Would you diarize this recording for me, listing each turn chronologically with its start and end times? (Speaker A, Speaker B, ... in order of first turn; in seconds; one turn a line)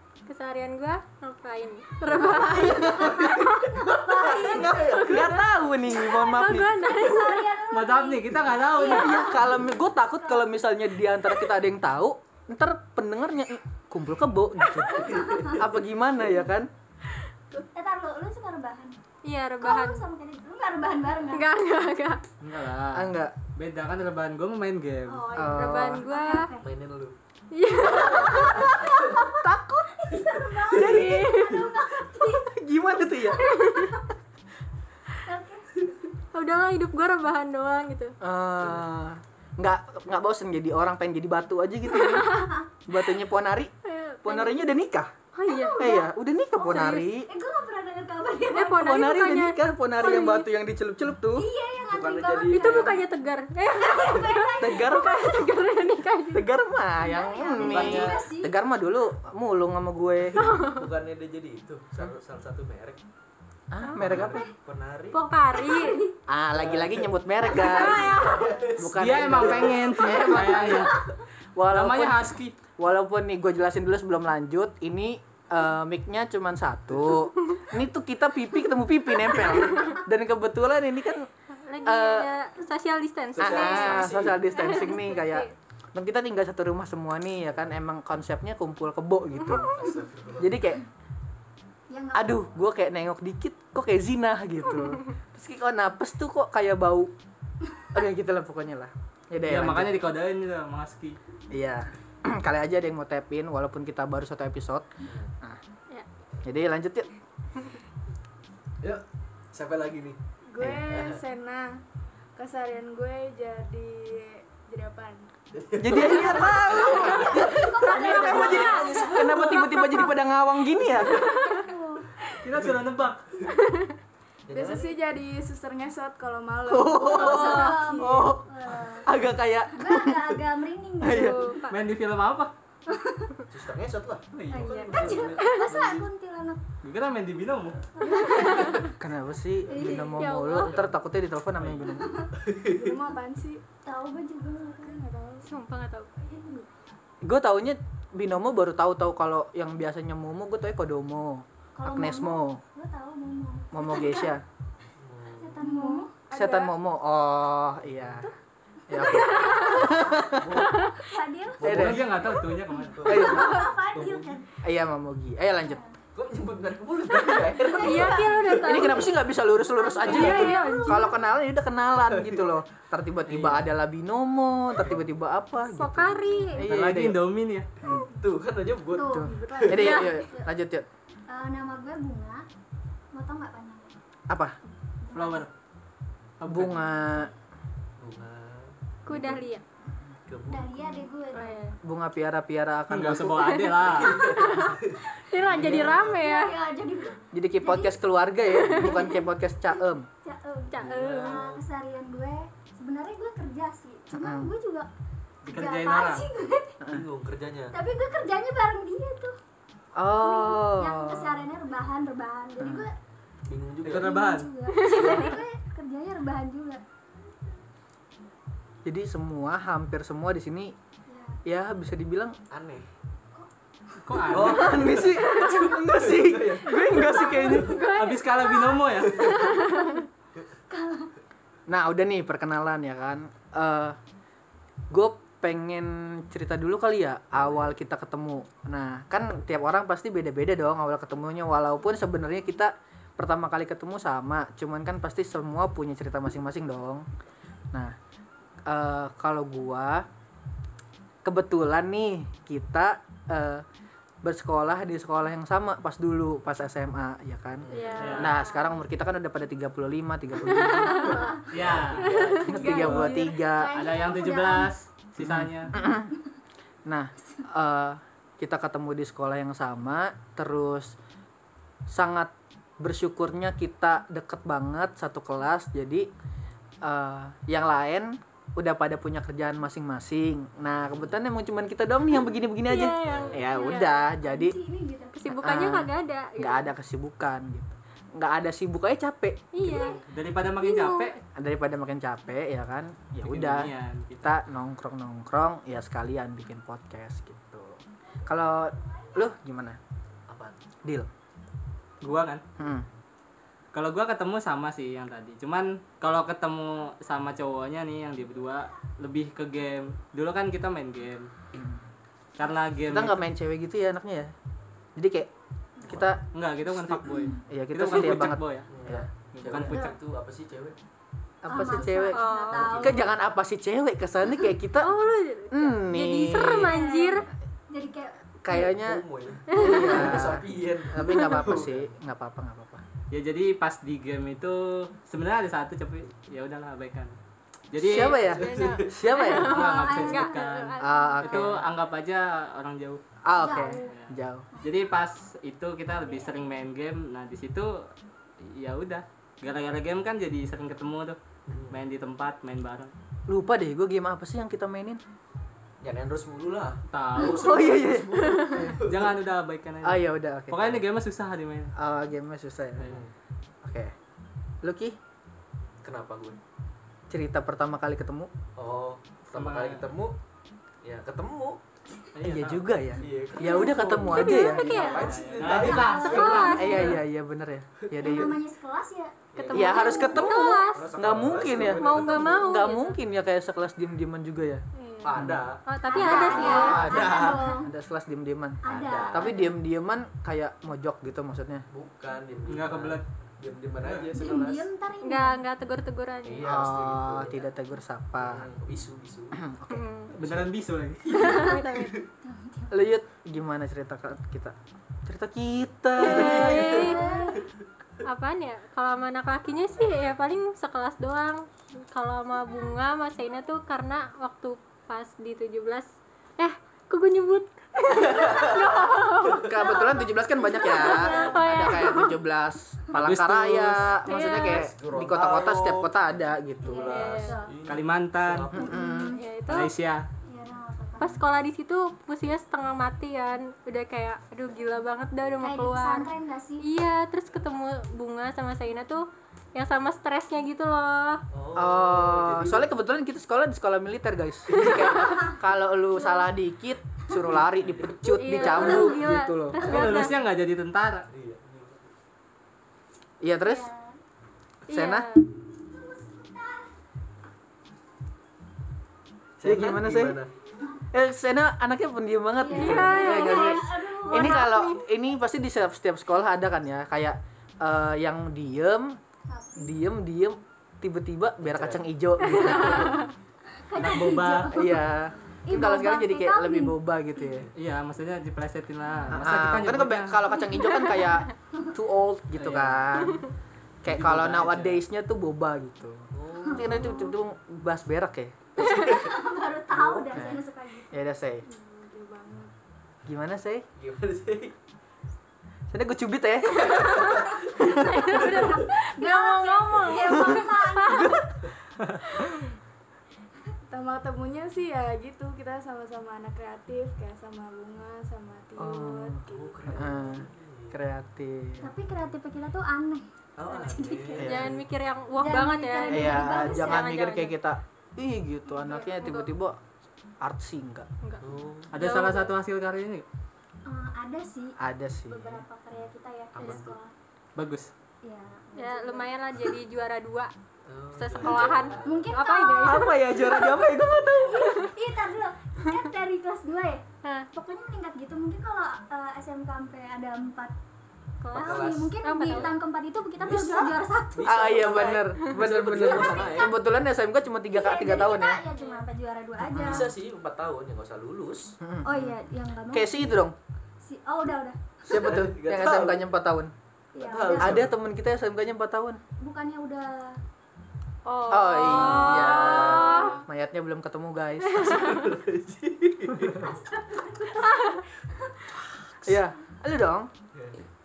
Speaker A: 0.2-3.7
Speaker B: 2.1-5.3
Speaker C: 2.4-5.2
Speaker D: 4.5-6.7
Speaker A: 6.0-7.4
Speaker C: 6.9-10.5
Speaker E: 7.7-9.3
Speaker D: 8.8-16.7
Speaker C: 14.9-15.6
Speaker B: 15.2-15.4
Speaker C: 17.6-18.9
Speaker A: 19.2-20.0
Speaker C: 19.6-21.5
Speaker A: 21.3-22.2
Speaker E: 22.4-25.3
Speaker D: 22.9-23.3
Speaker C: 25.1-26.7
Speaker D: 25.3-26.1
Speaker A: 25.5-26.5
Speaker B: 26.6-27.1
Speaker A: 27.5-28.8
Speaker B: 27.8-29.3
Speaker C: 28.0-28.9
Speaker D: 29.2-29.9
Speaker C: 29.9-32.5
Speaker B: 30.1-31.7
Speaker D: 30.7-31.3
Speaker A: 31.1-31.6
Speaker D: 32.2-33.4
Speaker C: 33.4-34.1
Speaker A: 33.5-34.0
Speaker C: 35.2-35.7
Speaker A: 36.3-38.1
Speaker D: 38.2-42.3
Speaker B: 38.6-38.9
Speaker A: 42.0-42.5
Speaker C: 42.3-42.6
Speaker D: 42.9-43.7
Speaker A: 43.8-44.6
Speaker D: 44.2-45.1
Speaker A: 45.4-45.8
Speaker C: 45.5-46.0
Speaker D: 45.8-47.3
Speaker A: 46.5-47.1
Speaker C: 47.3-48.9
Speaker A: 48.5-50.4
Speaker D: 48.8-51.5
Speaker C: 51.3-53.0
Speaker B: 51.9-53.0
Speaker A: 52.4-56.5
Speaker C: 53.8-55.4
Speaker D: 54.6-55.2
Speaker D: 56.3-60.4
Speaker C: 56.9-58.5
Speaker B: 57.6-58.2
Speaker A: 60.5-60.9
Speaker B: 60.5-63.0
Speaker D: 63.7-64.5
Speaker B: 64.0-65.2
Speaker A: 65.1-66.0
Speaker C: 65.5-66.1
Speaker D: 66.3-81.3
Speaker B: 66.5-70.4
Speaker C: 67.5-68.4
Speaker A: 67.6-68.4
Speaker E: 68.9-70.9
Speaker C: 70.3-70.9
Speaker E: 71.7-72.5
Speaker A: 79.7-80.0
Speaker A: 81.6-85.5
Speaker D: 81.8-82.3
Speaker B: 83.3-84.6
Speaker D: 83.4-89.9
Speaker B: 89.7-90.5
Speaker D: 90.4-90.8
Speaker C: 91.9-92.5
Speaker D: 92.1-97.1
Speaker D: 97.9-100.0
Speaker E: 99.4-101.2
Speaker D: 101.5-104.9
Speaker B: 105.0-105.3
Speaker D: 106.4-107.1
Speaker B: 108.8-110.2
Speaker F: 110.5-111.8
Speaker D: 110.6-110.8
Speaker B: 110.8-111.2
Speaker F: 112.3-115.3
Speaker B: 115.5-119.1
Speaker D: 115.8-121.2
Speaker C: 116.0-120.2
Speaker F: 116.3-119.5
Speaker C: 120.8-122.1
Speaker A: 121.2-121.7
Speaker E: 122.4-123.2
Speaker A: 123.5-123.9
Speaker B: 124.5-125.0
Speaker F: 124.5-128.3
Speaker D: 126.7-128.4
Speaker C: 127.0-129.1
Speaker D: 129.0-130.4
Speaker C: 129.7-131.6
Speaker D: 131.0-131.4
Speaker A: 131.1-131.8
Speaker E: 131.7-132.5
Speaker C: 132.9-133.4
Speaker B: 133.5-136.1
Speaker E: 134.3-135.2
Speaker C: 134.5-136.6
Speaker A: 134.6-135.7
Speaker E: 136.8-137.8
Speaker C: 138.0-138.8
Speaker A: 138.2-138.9
Speaker D: 139.0-142.1
Speaker B: 139.6-140.0
Speaker C: 139.7-140.2
Speaker A: 140.1-140.8
Speaker B: 140.6-140.9
Speaker E: 141.6-141.9
Speaker B: 142.3-142.9
Speaker F: 142.7-143.6
Speaker C: 143.8-145.0
Speaker F: 144.8-145.5
Speaker A: 145.4-146.1
Speaker C: 146.2-146.7
Speaker D: 147.2-152.6
Speaker C: 151.8-154.3
Speaker D: 153.7-154.4
Speaker B: 155.0-155.7
Speaker C: 155.4-156.1
Speaker F: 155.8-156.8
Speaker D: 156.3-158.3
Speaker B: 157.9-158.2
Speaker D: 158.9-160.6
Speaker C: 158.9-160.4
Speaker A: 159.4-159.9
Speaker B: 160.3-161.0
Speaker A: 160.6-161.0
Speaker C: 161.0-164.4
Speaker B: 161.6-162.2
Speaker D: 161.6-162.1
Speaker E: 161.6-163.2
Speaker B: 162.9-164.4
Speaker D: 163.0-163.6
Speaker A: 163.3-163.7
Speaker D: 164.6-165.8
Speaker C: 165.6-166.0
Speaker B: 166.1-168.8
Speaker C: 167.2-171.1
Speaker A: 167.6-169.0
Speaker D: 168.6-177.2
Speaker A: 170.1-171.1
Speaker B: 172.0-172.4
Speaker E: 173.3-173.7
Speaker A: 175.7-176.6
Speaker E: 176.6-177.7
Speaker D: 177.8-178.1
Speaker B: 178.2-180.0
Speaker C: 178.9-179.3
Speaker F: 178.9-180.2
Speaker D: 179.0-180.8
Speaker A: 179.8-180.1
Speaker C: 180.1-180.5
Speaker C: 181.3-182.4
Speaker C: 183.1-184.0
Speaker D: 184.3-184.5
Speaker C: 185.0-185.5
Speaker E: 185.1-185.5
Speaker E: 186.4-186.8
Speaker D: 186.4-187.3
Speaker B: 188.0-189.4
Speaker A: 189.1-189.6
Speaker B: 190.3-190.8
Speaker C: 190.5-191.6
Speaker A: 191.3-191.8
Speaker D: 191.8-193.5
Speaker E: 192.9-194.2
Speaker A: 193.3-196.5
Speaker B: 193.9-196.2
Speaker C: 196.1-198.0
Speaker D: 197.3-200.1
Speaker A: 198.7-199.0
Speaker C: 198.8-204.9
Speaker A: 200.7-201.4
Speaker B: 200.8-201.6
Speaker E: 201.1-201.4
Speaker D: 204.1-204.5
Speaker E: 205.4-206.2
Speaker C: 205.4-206.8
Speaker B: 206.9-207.8
Speaker C: 207.7-209.3
Speaker D: 210.0-211.4
Speaker C: 210.2-212.9
Speaker D: 212.6-212.8
Speaker B: 213.4-214.1
Speaker E: 213.8-214.5
Speaker C: 213.9-216.8
Speaker A: 214.7-215.3
Speaker D: 218.8-220.7
Speaker C: 221.1-221.4
Speaker D: 221.4-222.4
Speaker B: 222.5-222.9
Speaker E: 224.0-224.8
Speaker C: 224.1-224.7
Speaker B: 224.3-227.9
Speaker D: 224.4-227.8
Speaker C: 226.7-227.9
Speaker A: 227.6-230.1
Speaker E: 227.9-229.2
Speaker C: 229.5-230.0
Speaker C: 230.7-231.1
Speaker D: 231.7-234.0
Speaker D: 234.9-247.0
Speaker D: 248.7-250.1
Speaker D: 251.2-253.6
Speaker D: 254.2-261.2
Speaker B: 257.6-258.2
Speaker A: 257.7-258.7
Speaker E: 258.0-258.4
Speaker A: 260.6-261.2
Speaker B: 261.2-262.9
Speaker E: 261.5-262.1
Speaker A: 262.1-263.1
Speaker D: 262.4-263.7
Speaker C: 262.4-264.7
Speaker E: 262.7-263.2
Speaker E: 263.7-265.7
Speaker D: 265.2-266.1
Speaker D: 266.9-270.9
Speaker D: 271.9-276.1
Speaker D: 276.8-284.6
Speaker A: 282.7-283.9
Speaker B: 283.0-283.4
Speaker C: 283.6-285.2
Speaker A: 285.1-286.6
Speaker D: 285.4-289.9
Speaker A: 289.5-290.0
Speaker E: 290.1-291.1
Speaker A: 290.7-291.0
Speaker D: 291.4-299.8
Speaker E: 293.2-294.3
Speaker B: 300.3-300.6
Speaker E: 302.0-302.4
Speaker D: 302.6-302.9
Speaker E: 303.7-311.3
Speaker D: 311.5-311.8
Speaker E: 312.4-313.2
Speaker D: 312.9-314.3
Speaker D: 315.0-315.3
Speaker D: 315.8-316.2
Speaker E: 316.3-318.7
Speaker C: 317.0-317.4
Speaker D: 317.5-319.1
Speaker B: 318.7-320.8
Speaker E: 319.3-319.8
Speaker A: 319.6-319.9
Speaker D: 321.4-324.9
Speaker C: 321.5-323.1
Speaker A: 322.1-322.7
Speaker B: 322.5-323.0
Speaker A: 324.8-327.3
Speaker D: 325.5-326.7
Speaker C: 326.6-328.2
Speaker D: 328.4-332.8
Speaker B: 328.8-331.9
Speaker A: 329.5-330.2
Speaker A: 331.0-331.4
Speaker E: 333.1-337.2
Speaker E: 337.7-338.3
Speaker D: 337.8-339.5
Speaker B: 338.2-339.0
Speaker A: 338.4-340.8
Speaker C: 339.4-341.4
Speaker E: 339.4-343.0
Speaker D: 340.8-341.6
Speaker D: 343.2-344.5
Speaker C: 343.3-343.9
Speaker E: 343.8-347.8
Speaker C: 345.9-346.5
Speaker E: 348.4-352.9
Speaker B: 351.5-351.8
Speaker D: 353.3-355.0
Speaker B: 355.8-359.1
Speaker E: 356.9-357.6
Speaker D: 357.3-358.8
Speaker E: 358.8-361.7
Speaker D: 359.8-360.8
Speaker D: 361.8-362.9
Speaker B: 362.9-363.1
Speaker D: 363.6-363.9
Speaker D: 364.6-364.9
Speaker B: 365.8-366.4
Speaker D: 367.1-368.3
Speaker B: 368.6-370.2
Speaker E: 369.3-369.8
Speaker B: 370.8-371.6
Speaker E: 372.1-372.7
Speaker D: 372.2-374.8
Speaker B: 373.0-376.4
Speaker C: 373.4-377.0
Speaker A: 374.1-376.9
Speaker E: 374.9-377.0
Speaker D: 376.5-378.4
Speaker B: 378.0-378.2
Speaker C: 378.0-380.3
Speaker B: 379.3-382.6
Speaker E: 379.4-379.6
Speaker D: 379.5-384.6
Speaker A: 379.6-380.9
Speaker A: 381.6-383.0
Speaker A: 384.8-386.9
Speaker B: 385.0-387.5
Speaker D: 385.1-391.6
Speaker C: 385.9-387.7
Speaker C: 388.6-389.5
Speaker B: 388.7-389.3
Speaker B: 391.7-394.7
Speaker E: 392.5-393.0
Speaker C: 394.1-395.4
Speaker A: 395.0-396.6
Speaker B: 396.2-397.5
Speaker D: 396.4-398.5
Speaker B: 398.1-399.4
Speaker D: 399.3-399.8
Speaker A: 399.7-400.1
Speaker B: 400.1-400.5
Speaker E: 400.2-401.2
Speaker B: 401.1-401.9
Speaker A: 401.1-402.0
Speaker C: 402.2-402.8
Speaker D: 402.7-404.5
Speaker D: 405.1-406.8
Speaker A: 406.0-407.4
Speaker B: 406.0-406.9
Speaker C: 406.4-407.4
Speaker A: 408.0-419.9
Speaker B: 418.1-418.4
Speaker D: 419.4-426.9
Speaker A: 420.6-422.1
Speaker C: 420.6-421.6
Speaker E: 422.9-423.9
Speaker A: 424.0-424.7
Speaker B: 424.1-428.8
Speaker C: 426.6-427.5
Speaker A: 426.9-427.4
Speaker E: 427.6-428.5
Speaker D: 428.5-429.1
Speaker C: 428.5-429.2
Speaker A: 429.1-429.7
Speaker E: 429.5-430.0
Speaker C: 430.2-431.2
Speaker A: 431.0-436.1
Speaker C: 435.4-436.6
Speaker A: 436.6-441.2
Speaker B: 441.3-442.7
Speaker D: 441.6-449.6
Speaker C: 444.9-445.3
Speaker C: 446.0-446.3
Speaker B: 447.2-448.9
Speaker A: 448.1-450.1
Speaker C: 448.4-448.9
Speaker E: 449.6-451.0
Speaker B: 451.1-451.9
Speaker D: 453.2-453.7
Speaker C: 453.4-454.0
Speaker A: 454.7-455.2
Speaker D: 454.7-455.1
Speaker C: 455.6-456.7
Speaker B: 459.4-460.3
Speaker D: 459.4-460.2
Speaker D: 460.9-469.0
Speaker C: 462.4-464.4
Speaker A: 462.5-464.8
Speaker C: 469.3-469.8
Speaker D: 469.6-473.0
Speaker B: 471.4-471.9
Speaker A: 472.2-473.1
Speaker C: 473.5-476.8
Speaker E: 473.7-474.5
Speaker D: 474.5-477.5
Speaker E: 477.5-480.2
Speaker D: 479.1-483.2
Speaker C: 480.5-480.9
Speaker E: 482.3-482.9
Speaker D: 483.8-488.5
Speaker E: 483.9-484.8
Speaker B: 486.1-486.7
Speaker C: 486.5-487.1
Speaker B: 488.6-489.2
Speaker C: 488.6-490.9
Speaker B: 489.7-490.3
Speaker D: 490.1-491.4
Speaker F: 491.4-492.5
Speaker D: 493.1-493.6
Speaker B: 493.8-494.5
Speaker D: 495.7-496.9
Speaker A: 496.6-501.1
Speaker B: 496.7-498.7
Speaker C: 497.1-501.2
Speaker D: 500.1-500.4
Speaker D: 500.9-501.3
Speaker A: 502.1-502.5
Speaker F: 503.7-509.8
Speaker D: 508.6-511.7
Speaker B: 509.3-510.8
Speaker C: 511.6-514.3
Speaker B: 513.4-514.6
Speaker A: 513.6-517.4
Speaker D: 514.1-514.5
Speaker C: 515.2-516.9
Speaker D: 515.9-519.6
Speaker A: 518.6-519.3
Speaker D: 520.2-520.9
Speaker A: 521.0-522.3
Speaker B: 521.2-521.7
Speaker E: 521.7-523.0
Speaker C: 523.6-526.9
Speaker D: 524.6-525.4
Speaker B: 526.3-526.8
Speaker E: 527.4-527.7
Speaker C: 528.0-529.1
Speaker A: 528.5-530.3
Speaker B: 530.7-532.0
Speaker A: 530.9-532.9
Speaker C: 531.8-540.5
Speaker D: 532.6-534.7
Speaker A: 537.0-537.3
Speaker A: 541.2-542.5
Speaker C: 541.3-544.6
Speaker B: 541.3-542.6
Speaker B: 543.2-546.5
Speaker D: 544.2-548.4
Speaker C: 545.8-546.6
Speaker C: 547.5-549.9
Speaker A: 548.5-548.8
Speaker D: 549.5-549.9
Speaker B: 549.6-551.6
Speaker D: 551.6-553.4
Speaker C: 551.8-553.3
Speaker C: 553.8-554.9
Speaker D: 554.9-556.5
Speaker B: 554.9-556.1
Speaker C: 556.9-557.6
Speaker B: 557.0-557.7
Speaker D: 557.3-559.0
Speaker C: 559.2-560.2
Speaker A: 561.0-563.2
Speaker D: 561.3-564.6
Speaker B: 562.3-563.1
Speaker A: 564.5-565.1
Speaker B: 564.5-566.5
Speaker C: 566.4-567.8
Speaker D: 569.0-570.1
Speaker B: 570.3-570.6